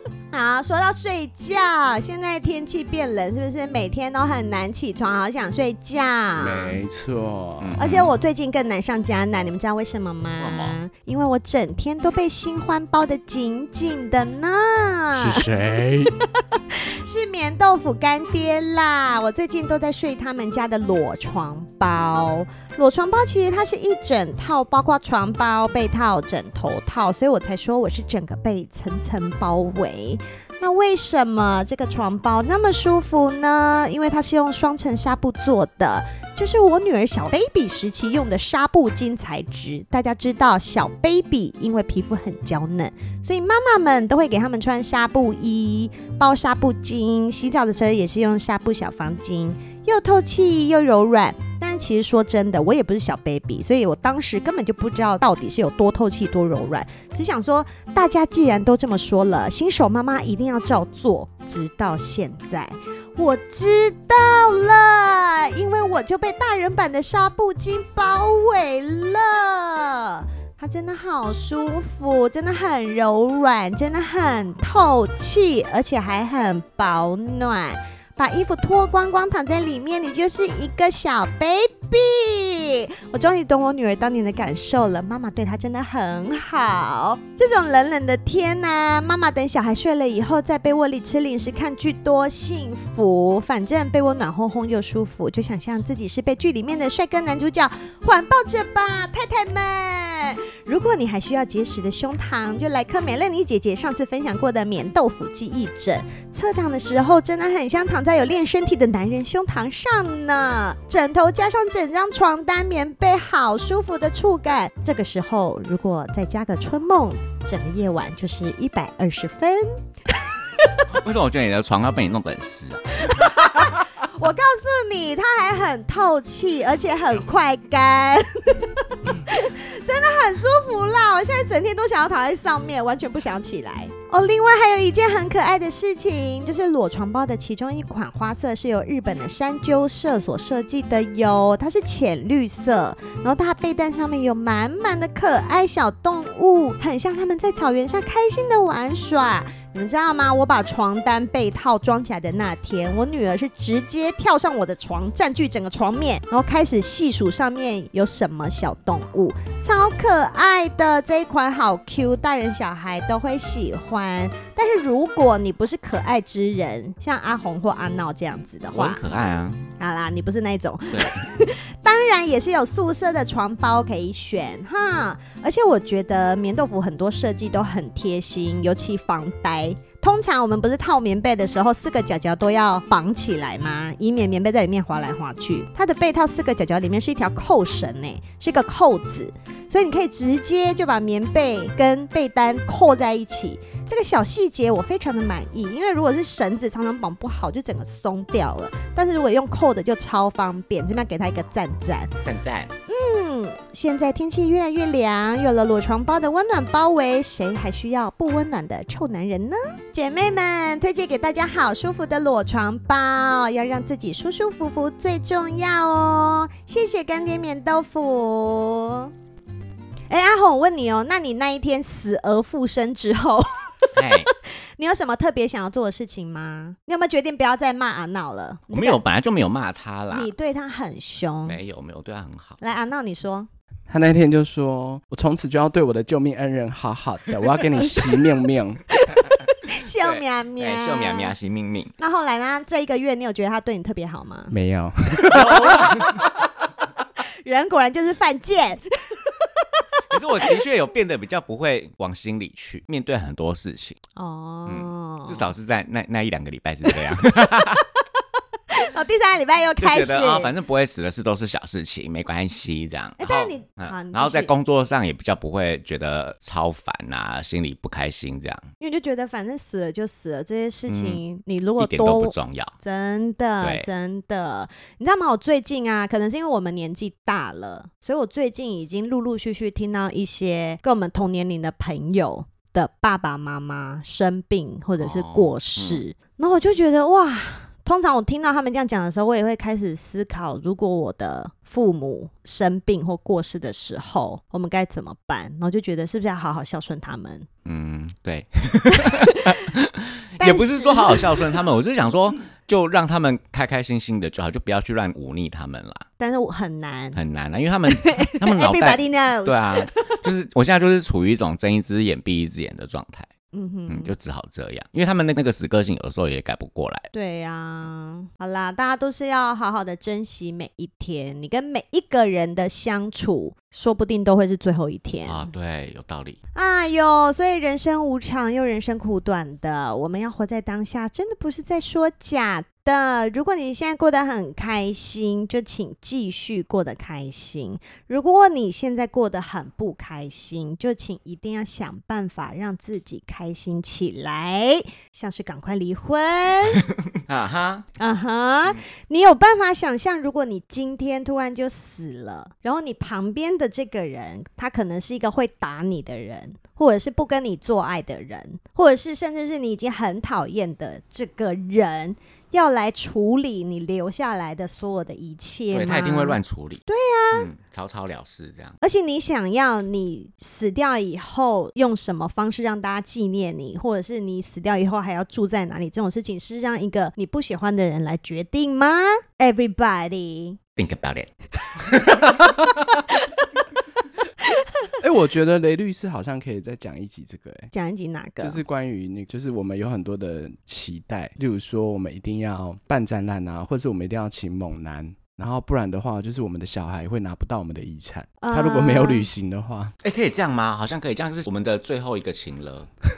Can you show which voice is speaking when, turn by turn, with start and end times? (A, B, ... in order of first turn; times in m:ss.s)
0:00.3-0:06.8 A
0:06.4-0:07.8 B
0:07.6-0:08.1 C
0:07.8-0:15.5 A
0:10.4-0:10.8 C
0:15.2-0:16.2 B
0:16.4-2:00.8 A
2:00.9-2:03.2 C
2:03.0-2:49.0 A
2:48.7-2:49.7 C
2:49.8-3:22.1 A
2:50.9-2:51.2 C
3:22.2-3:22.7 C
3:22.9-3:39.1 A
3:40.1-3:49.0 A
3:44.0-3:44.3 C
3:48.7-3:50.3 C
3:50.1-3:51.6 A
3:51.4-3:52.6 C
3:52.6-3:53.5 A
3:53.9-3:58.8 B
3:57.8-3:58.3 A
3:58.9-4:01.3 A
4:00.0-4:01.9 C
4:02.0-4:04.5 A
4:04.5-4:06.0 B
4:05.3-4:06.3 C
4:05.8-4:06.0 A
4:07.4-4:10.6 A
4:10.1-4:14.0 C
4:14.2-4:15.5 A
4:14.7-4:17.8 C
4:18.7-4:20.5 A
4:19.8-4:28.7 C
4:23.2-4:24.5 A
4:28.8-4:57.5 A
4:30.9-4:31.2 C
4:31.8-4:32.7 C
4:33.6-4:33.9 C
4:45.0-4:46.0 C
4:57.6-5:06.1 C
4:58.9-4:59.7 A
5:00.4-5:01.6 A
5:06.2-5:07.2 A
5:07.2-5:13.3 C
5:07.9-5:10.2 A
5:13.5-5:14.1 A
5:13.9-5:17.1 C
5:17.1-5:25.5 A
5:25.3-5:26.4 C
5:26.6-5:46.9 A
5:47.2-5:47.9 C
5:48.0-6:07.5 A
6:05.7-6:08.8 C
6:08.8-6:20.6 A
6:20.8-6:22.7 C
6:24.5-6:24.9 A
6:25.0-6:27.7 B
6:27.7-6:28.6 A
6:28.4-6:39.9 B
6:38.4-6:39.3 A
6:40.0-6:42.9 C